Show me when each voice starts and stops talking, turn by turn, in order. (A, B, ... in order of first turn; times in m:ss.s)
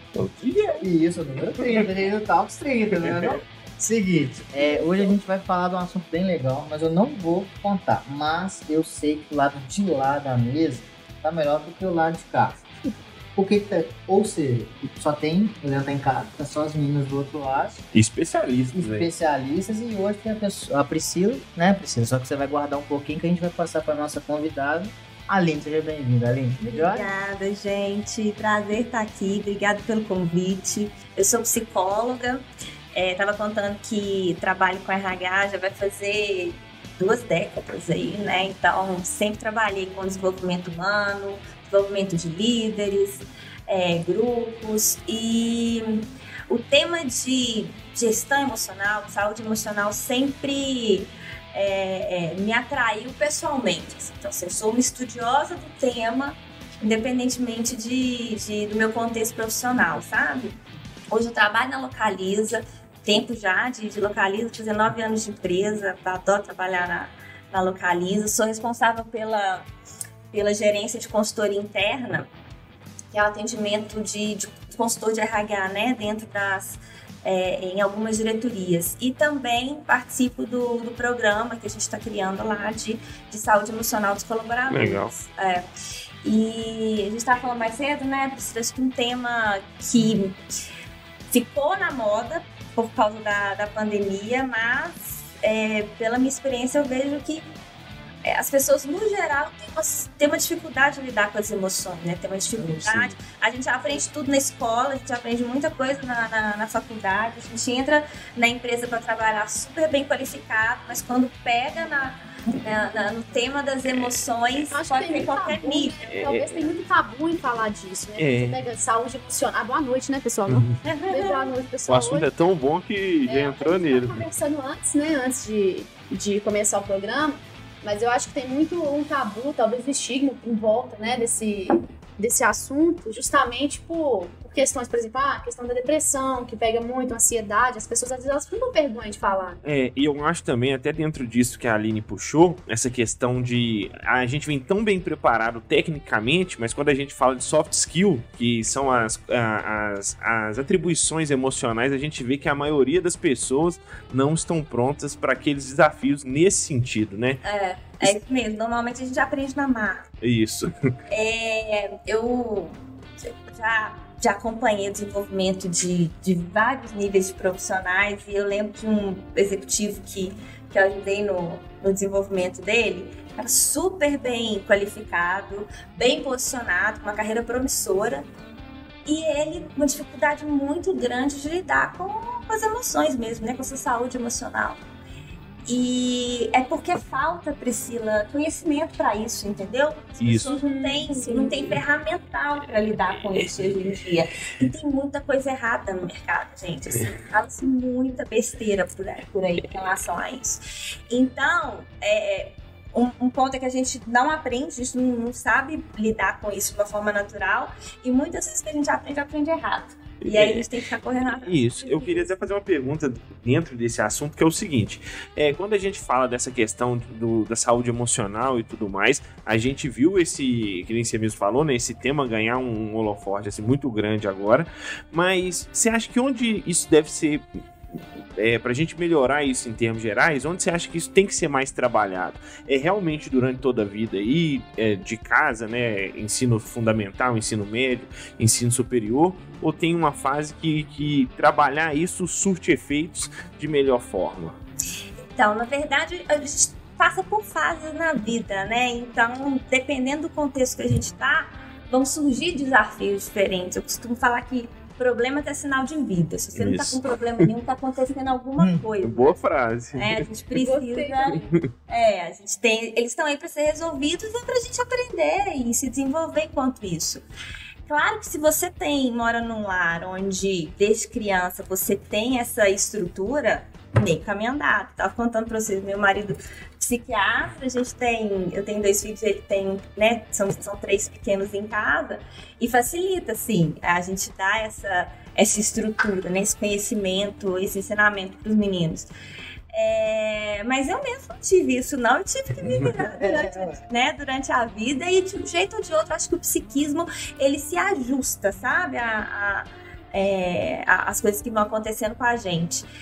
0:00.1-0:00.9 A
0:00.8-0:12.6 B
0:13.3-0:17.8 B
0:17.9-0:19.1 A
0:18.7-0:27.1 B
0:26.6-1:00.6 C
1:01.1-1:09.7 C
1:10.3-1:12.3 C
1:13.1-1:25.7 C
1:24.7-1:25.1 A
1:26.2-1:30.4 C
1:31.3-1:37.4 C
1:38.2-1:56.0 C
1:42.6-1:43.1 A
1:53.9-1:55.3 A
1:54.7-2:02.3 D
1:56.0-1:56.7 A
1:58.2-1:58.7 A
2:00.5-2:00.8 A
2:00.8-2:01.5 C
2:01.9-2:04.2 A
2:03.2-2:19.6 D
2:19.6-2:37.4 A
2:37.4-2:40.1 C
2:40.2-2:40.8 A
2:41.1-2:42.8 C
2:43.5-2:58.2 C
2:59.0-3:04.8 C
3:05.7-3:32.3 C
3:10.2-3:10.5 A
3:10.4-3:11.8 D
3:30.2-3:30.7 A
3:31.2-3:47.4 A
3:48.4-4:04.6 A
4:05.3-4:19.4 C
4:16.6-4:17.5 A
4:18.6-4:18.8 B
4:19.0-4:20.3 A
4:19.9-4:27.2 C
4:20.6-4:21.5 D
4:27.9-4:49.1 C
4:49.7-5:02.9 C
4:53.0-4:53.8 B